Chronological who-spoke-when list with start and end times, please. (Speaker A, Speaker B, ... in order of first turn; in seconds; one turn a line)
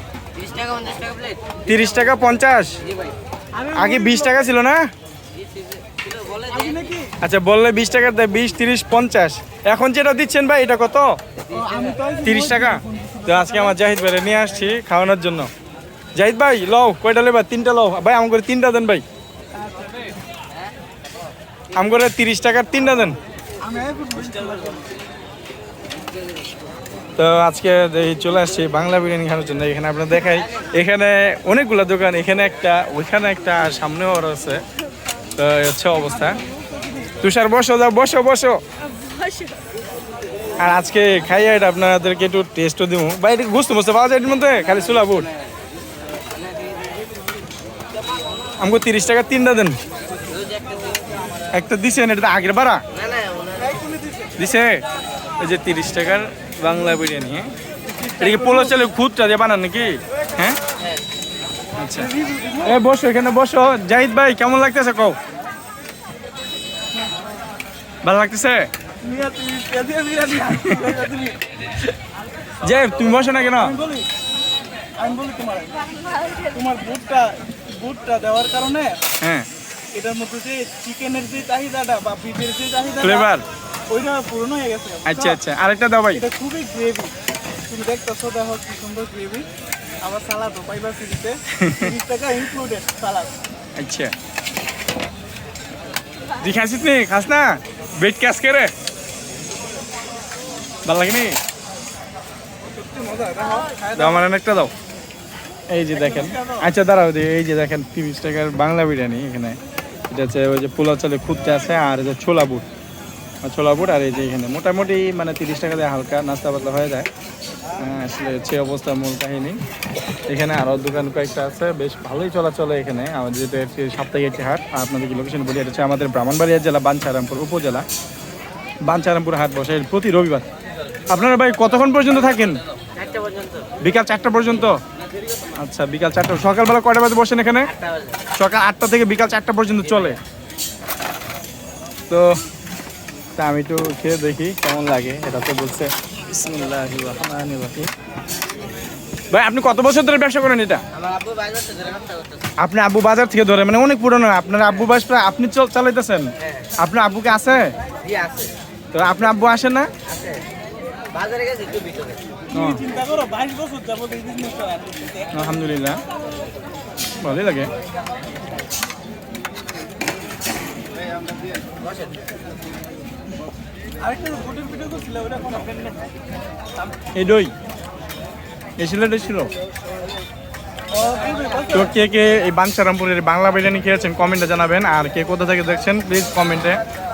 Speaker A: 0.7-1.3
Speaker B: 1.7-2.8
Speaker C: 3.5-4.5
Speaker B: 3.7-4.8
Speaker C: 6.5-7.1
Speaker B: 7.2-11.1
Speaker C: 11.5-13.8
Speaker B: 12.2-15.5
Speaker B: 16.2-19.0
Speaker B: 21.7-23.2
Speaker C: 23.6-24.9
Speaker B: 27.2-34.6
Speaker B: 35.4-36.4
Speaker C: 36.1-37.2
Speaker B: 37.2-38.6
Speaker B: 40.6-45.3
Speaker B: 48.6-49.8
Speaker B: 51.5-52.8
Speaker C: 53.5-54.4
Speaker B: 54.4-54.8
Speaker B: 55.4-57.5
Speaker C: 57.9-58.8
Speaker B: 58.2-60.6
Speaker B: 61.8-62.1
Speaker C: 61.9-62.8
Speaker B: 62.6-65.2
Speaker B: 68.0-68.7
Speaker C: 69.0-71.4
Speaker B: 70.6-71.0
Speaker B: 72.6-73.8
Speaker C: 73.6-74.1
Speaker C: 75.0-79.0
Speaker B: 79.2-79.5
Speaker C: 79.9-83.3
Speaker B: 83.0-83.5
Speaker C: 83.9-85.4
Speaker B: 85.1-86.2
Speaker C: 86.1-87.1
Speaker C: 87.7-89.5
Speaker C: 90.0-93.3
Speaker B: 91.5-91.9
Speaker B: 93.8-94.1
Speaker B: 96.4-98.7
Speaker B: 100.9-101.4
Speaker C: 102.8-104.2
Speaker B: 104.0-104.7
Speaker B: 105.7-109.6
Speaker C: 105.9-106.7
Speaker B: 110.1-112.7
Speaker B: 113.4-117.1
Speaker B: 117.8-119.6
Speaker B: 120.3-127.9
Speaker B: 128.9-130.5
Speaker B: 131.1-132.6
Speaker B: 133.8-134.8
Speaker B: 135.6-137.8
Speaker B: 138.4-140.2
Speaker B: 142.1-142.4
Speaker B: 143.4-147.9
Speaker B: 149.3-150.8
Speaker A: 151.1-152.2
Speaker B: 152.6-156.3
Speaker B: 156.8-157.7
Speaker A: 158.1-158.4
Speaker B: 158.9-159.9
Speaker A: 161.1-162.2
Speaker B: 162.5-162.8
Speaker C: 162.5-165.3
Speaker B: 165.3-166.0
Speaker B: 167.2-167.7
Speaker C: 174.0-175.9
Speaker B: 177.1-177.5
Speaker B: 178.8-179.5
Speaker C: 180.9-181.9
Speaker B: 181.7-186.8